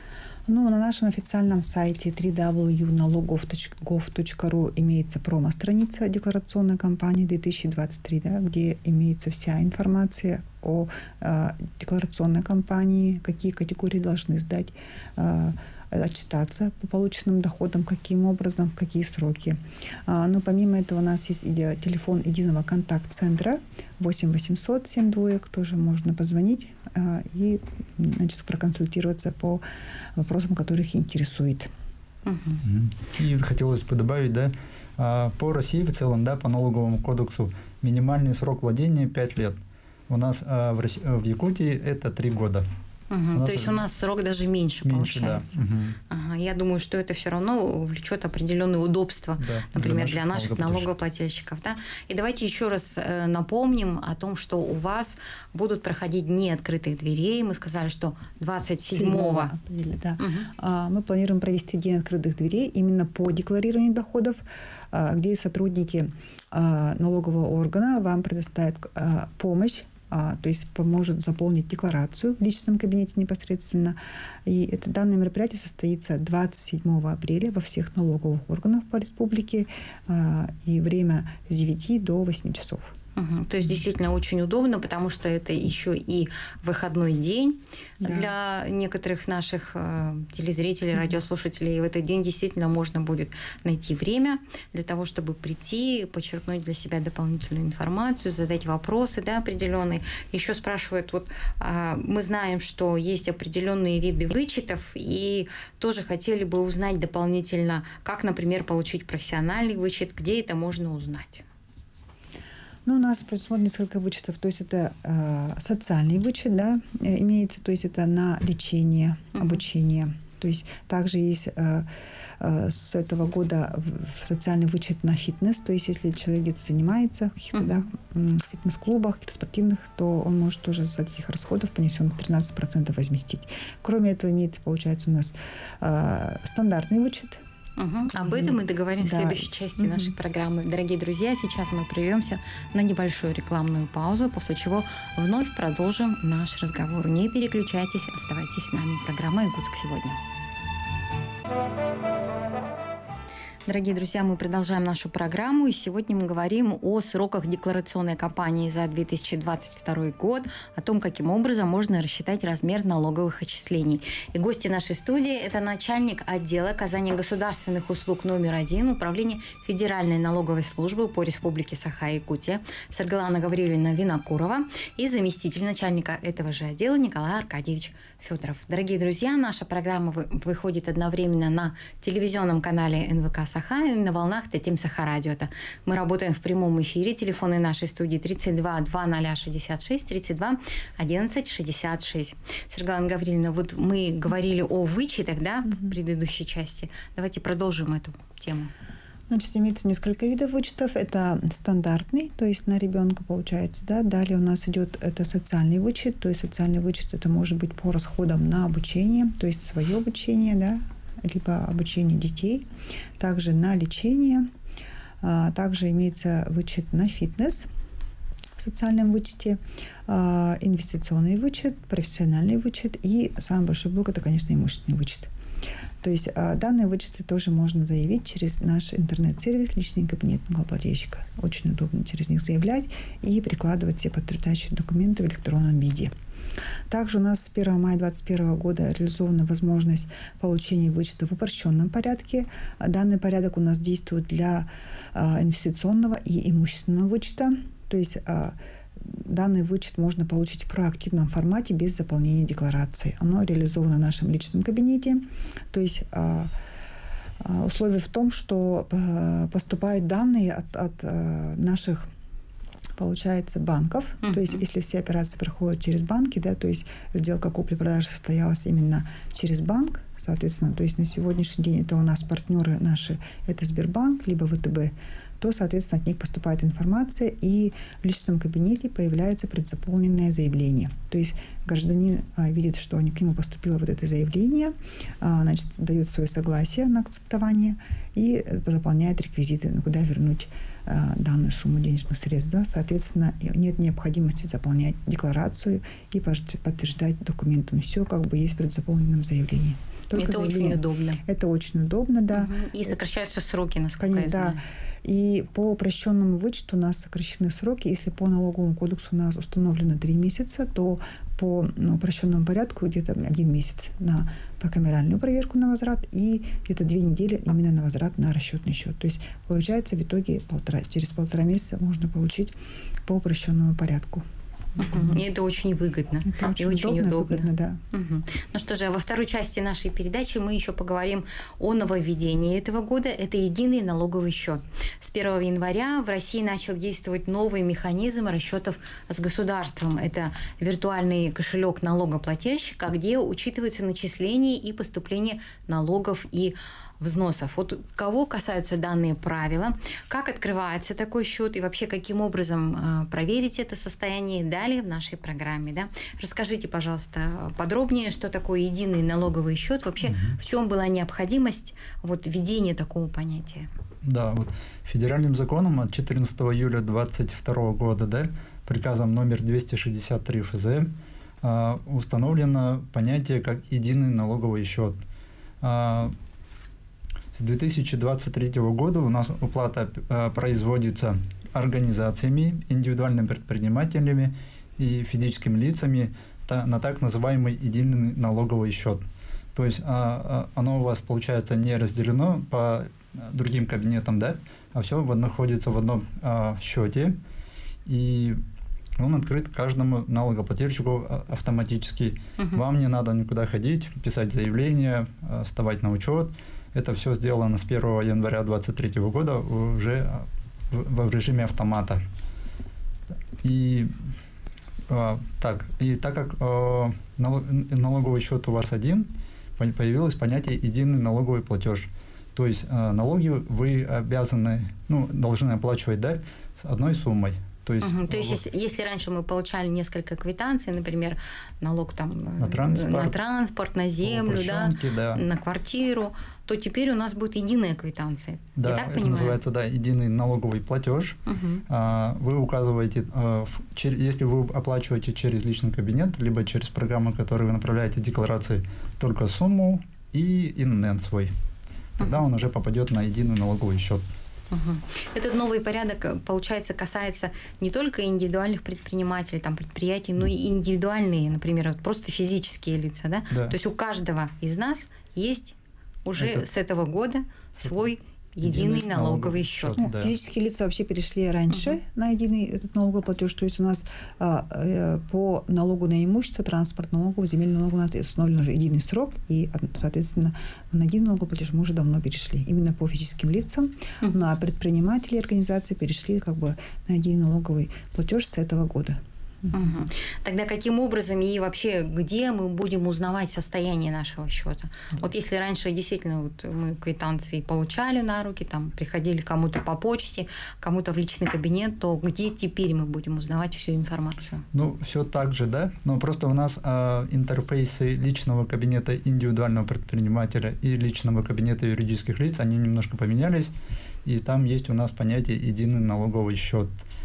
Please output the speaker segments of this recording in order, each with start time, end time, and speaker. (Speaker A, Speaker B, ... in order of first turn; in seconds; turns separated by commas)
Speaker A: 0.5-29.6, Speaker A: 30.1-31.7, Speaker B: 32.3-32.6, Speaker C: 32.6-42.7, Speaker B: 43.1-45.6, Speaker C: 43.4-43.9, Speaker C: 44.9-46.0, Speaker B: 46.1-59.5, Speaker C: 49.4-50.9, Speaker A: 58.9-82.9, Speaker B: 60.2-60.5, Speaker B: 83.1-111.4, Speaker A: 88.0-88.3, Speaker A: 112.8-137.4, Speaker B: 127.5-127.8, Speaker B: 137.8-150.2, Speaker A: 138.1-140.1, Speaker B: 153.7-198.7, Speaker A: 199.3-212.7, Speaker A: 213.2-214.5, Speaker A: 215.2-217.7, Speaker A: 218.6-225.3, Speaker A: 226.0-236.1, Speaker A: 236.9-256.5, Speaker A: 257.4-262.1, Speaker A: 263.0-302.9, Speaker B: 264.2-264.6, Speaker B: 300.1-301.2, Speaker B: 302.3-304.6, Speaker A: 303.9-322.6, Speaker A: 323.1-324.2, Speaker B: 324.8-363.7, Speaker A: 324.8-325.1, Speaker A: 326.2-327.8, Speaker C: 360.0-360.4, Speaker C: 364.0-370.9, Speaker C: 371.4-374.9, Speaker C: 375.6-376.1, Speaker C: 377.4-389.0, Speaker C: 389.6-397.1, Speaker C: 397.9-398.4, Speaker C: 399.0-412.0, Speaker C: 413.4-413.9, Speaker C: 414.9-428.4, Speaker B: 427.8-439.4, Speaker C: 432.4-433.1, Speaker C: 434.0-435.2, Speaker C: 438.6-451.3, Speaker B: 441.3-441.6, Speaker C: 452.0-454.1, Speaker B: 454.5-469.8, Speaker C: 466.2-466.5, Speaker C: 468.4-470.1, Speaker A: 469.8-489.5, Speaker B: 489.5-504.4, Speaker C: 504.5-513.5, Speaker C: 514.0-516.7